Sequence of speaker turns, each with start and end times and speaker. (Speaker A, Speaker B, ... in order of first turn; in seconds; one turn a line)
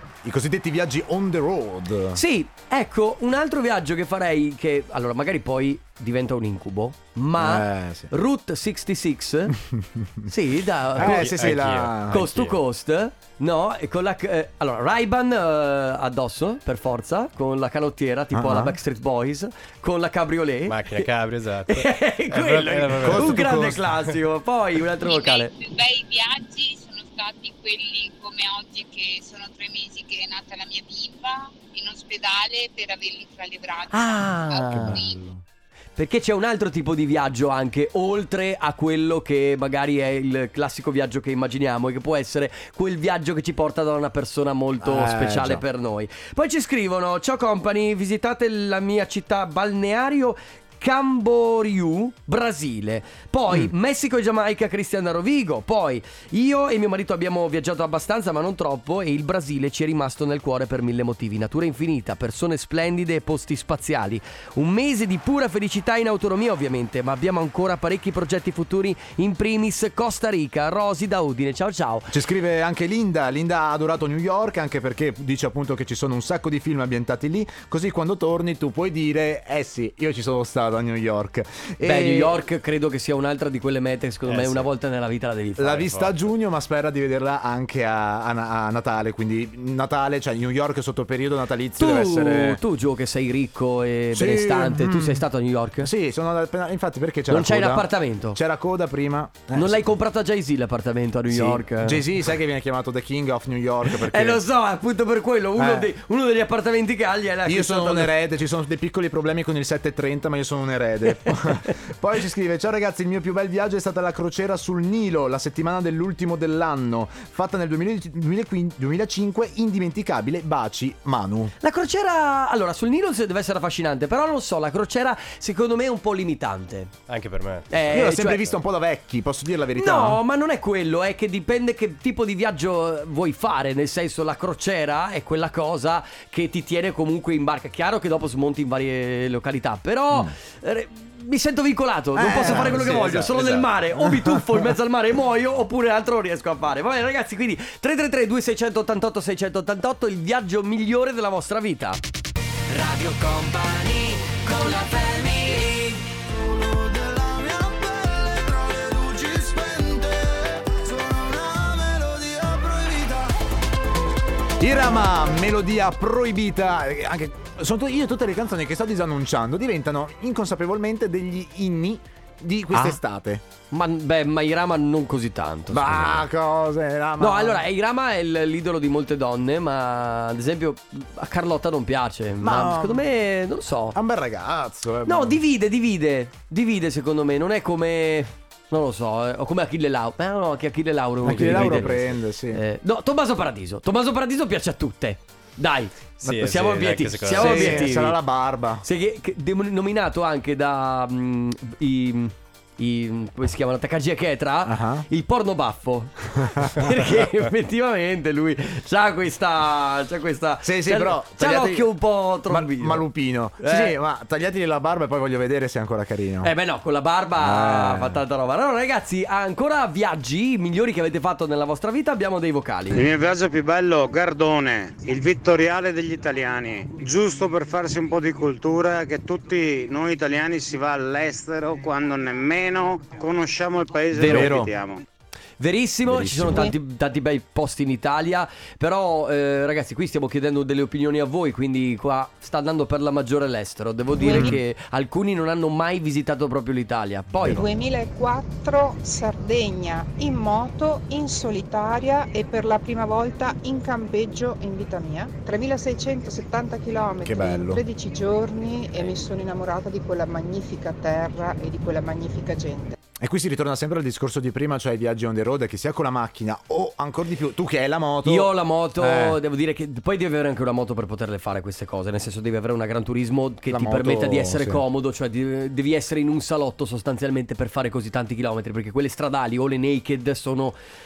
Speaker A: 0.2-2.2
Speaker B: 2.1-9.5
Speaker A: 7.4-8.1
Speaker A: 9.7-10.1
Speaker B: 10.2-11.6
Speaker A: 10.9-12.3
Speaker C: 11.0-12.6
Speaker B: 12.1-21.1
Speaker A: 18.3-18.8
Speaker C: 20.7-23.5
Speaker B: 21.7-25.5
Speaker A: 23.0-24.1
Speaker D: 25.0-35.2
Speaker B: 33.9-35.0
Speaker A: 34.7-35.4
Speaker B: 36.0-72.1
Speaker A: 44.8-45.6
Speaker A: 72.1-82.4
Speaker B: 81.8-86.0
Speaker C: 84.3-84.7
Speaker A: 85.6-92.6
Speaker C: 85.9-86.3
Speaker B: 91.8-95.9
Speaker A: 94.1-95.2
Speaker A: 95.8-99.9
Speaker B: 97.3-98.4
Speaker B: 99.5-102.0
Speaker A: 101.3-104.4
Speaker B: 103.9-108.1
Speaker A: 105.5-105.9
Speaker A: 107.5-121.5
Speaker B: 111.2-111.7
Speaker B: 121.6-126.9
Speaker C: 127.1-127.8
Speaker B: 127.7-128.5
Speaker A: 127.9-130.2
Speaker B: 129.8-152.0
Speaker A: 142.1-144.7
Speaker C: 142.7-143.1
Speaker B: 152.7-156.1
Speaker A: 157.1-158.1
Speaker A: 158.8-160.1
Speaker A: 160.8-162.8
Speaker A: 164.6-173.4
Speaker B: 172.7-173.0
Speaker B: 173.7-176.3
Speaker A: 175.7-177.6
Speaker B: 177.2-184.0
Speaker A: 182.4-183.0
Speaker A: 183.9-185.4
Speaker B: 185.1-198.2
Speaker A: 191.2-192.6
Speaker C: 191.4-192.0
Speaker C: 196.2-197.9
Speaker A: 197.2-198.8
Speaker B: 198.8-213.1
Speaker A: 204.6-205.1
Speaker A: 206.6-207.0
Speaker A: 210.6-211.9
Speaker A: 212.5-216.5
Speaker B: 213.6-213.9
Speaker B: 216.4-223.0
Speaker A: 217.4-218.2
Speaker E: 222.9-235.0
Speaker B: 234.1-234.7
Speaker A: 234.2-234.7
Speaker B: 235.6-247.6
Speaker A: 236.1-236.7
Speaker F: 244.2-244.5
Speaker A: 244.3-244.6
Speaker F: 247.5-262.9
Speaker A: 257.2-257.8
Speaker A: 263.2-269.4
Speaker B: 268.2-280.8
Speaker A: 273.7-274.8